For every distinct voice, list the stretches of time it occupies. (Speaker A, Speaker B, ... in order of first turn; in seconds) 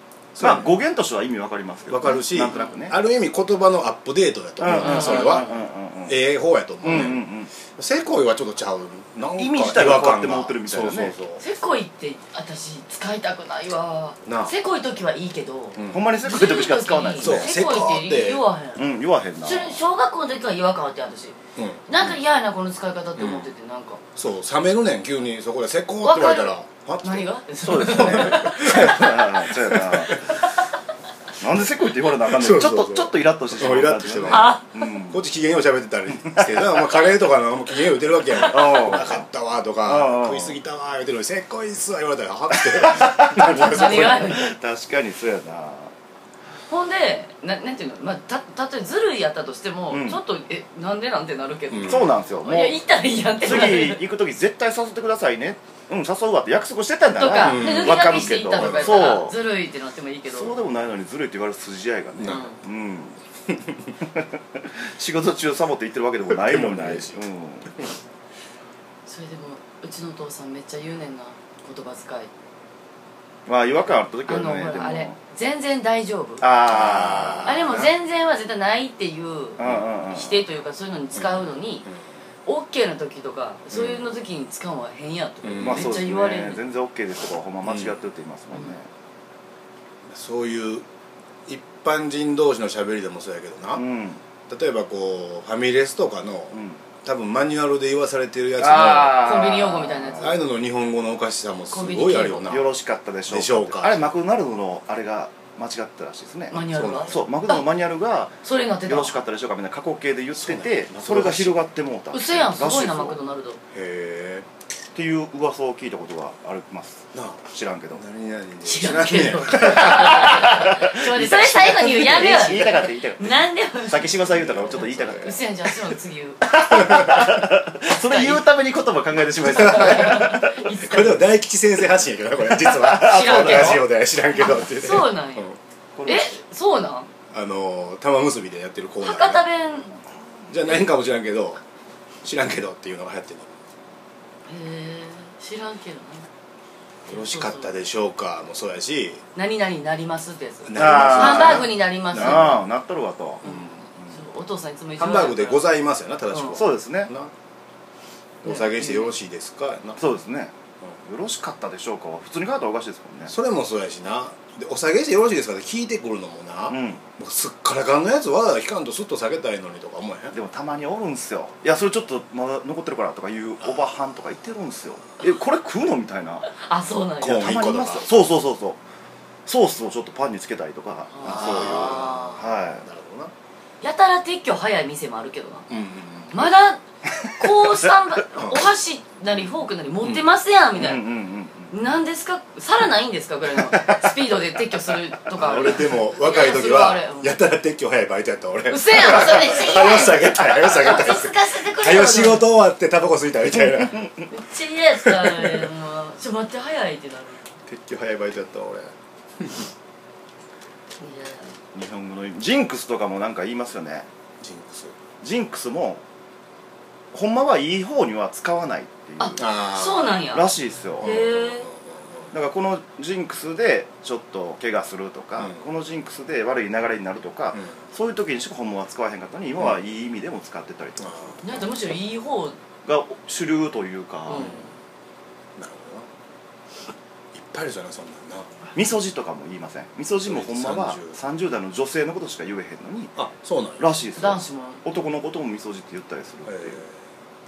Speaker A: 0.3-0.8, 1.9-5.5, 6.1-11.4, 14.3-14.5, 15.7-16.1, 17.2-18.5, 21.6-22.2, 23.2-23.5, 24.2-30.4, 32.2-44.5, 51.7-52.1, 57.4-59.2, 62.2-62.5, 66.3-67.2, 76.7-77.9, 79.6-79.9, 81.1-82.1, 85.4-86.0, 87.6-88.0, 90.1-90.8, 91.5-93.8, 94.5-99.3, 100.2-102.7, 103.3-104.2, 106.7-107.2, 110.3-111.6, 113.7-114.5, 117.1-120.7, 124.3-125.4, 129.5-130.2, 130.8-135.6, 137.3-139.4, 140.5-141.6, 142.2-143.5, 147.1-149.2, 150.7-152.6, 153.4-153.8, 155.0-157.3, 158.4-160.0, 163.3-170.4, 177.2-178.3, 181.2-183.3, 185.7-186.5, 188.4-188.7, 195.4-204.1, 205.0-205.7, 207.7-208.9, 214.4-214.9, 219.4-220.3, 221.0-222.3, 225.4-225.6, 227.5-227.8, 231.0-231.7, 234.4-234.7, 235.6-236.1, 237.3-238.5, 240.3-241.2, 243.2-243.8, 246.4-247.0
Speaker B: 0.4-3.0, 4.6-6.2, 6.8-7.5, 9.3-11.2, 15.9-17.6, 18.8-19.8, 27.6-30.2, 31.4-35.2, 36.2-37.1, 38.3-39.3, 39.9-40.6, 42.6-45.9, 49.9-50.2, 51.8-52.8, 53.4-59.4, 60.2-63.2, 64.0-67.7, 73.5-75.2, 76.4-77.9, 79.6-80.4, 85.6-88.9, 93.7-94.2, 96.5-96.8, 98.6-100.3, 102.5-113.2, 114.9-118.0, 119.5-125.7, 126.4-130.7, 132.5-133.8, 135.9-136.4, 150.7-154.2, 156.5-157.1, 160.0-160.5, 161.1-163.3, 166.7-167.0, 170.3-176.5, 177.3-178.8, 179.5-182.8, 190.0-191.7, 195.4-195.9, 211.7-214.1, 215.2-216.0, 217.1-219.4, 220.3-221.1, 222.3-231.6, 232.8-234.6, 238.7-243.2, 243.8-246.8
Speaker C: 2.1-2.8, 4.8-5.6, 11.4-18.8, 19.4-21.4, 21.9-24.0, 26.0-29.1, 30.2-30.6, 34.2-34.8, 43.5-44.5, 46.7-54.0, 57.2-60.6, 62.2-62.6, 69.1-72.3, 74.3-76.5, 77.5-81.9, 82.5-86.6, 99.2-100.3, 101.7-102.7, 106.5-107.7, 108.4-109.2, 112.1-113.6, 118.6-124.2, 125.1-126.5, 127.9-128.5, 129.4-131.3, 133.0-133.8, 134.4-135.5, 136.1-137.1, 139.0-140.0, 144.5-146.3, 147.1-147.7, 149.3-152.6, 153.4-155.7, 156.3-156.6, 158.4-159.1, 176.4-177.7, 181.1-182.4, 183.8-185.7, 186.3-191.1, 191.7-197.4, 198.7-202.5, 204.3-207.5, 211.0-211.6, 219.2-220.5, 221.0-221.7, 231.4-232.6, 234.3-234.7, 244.2-244.8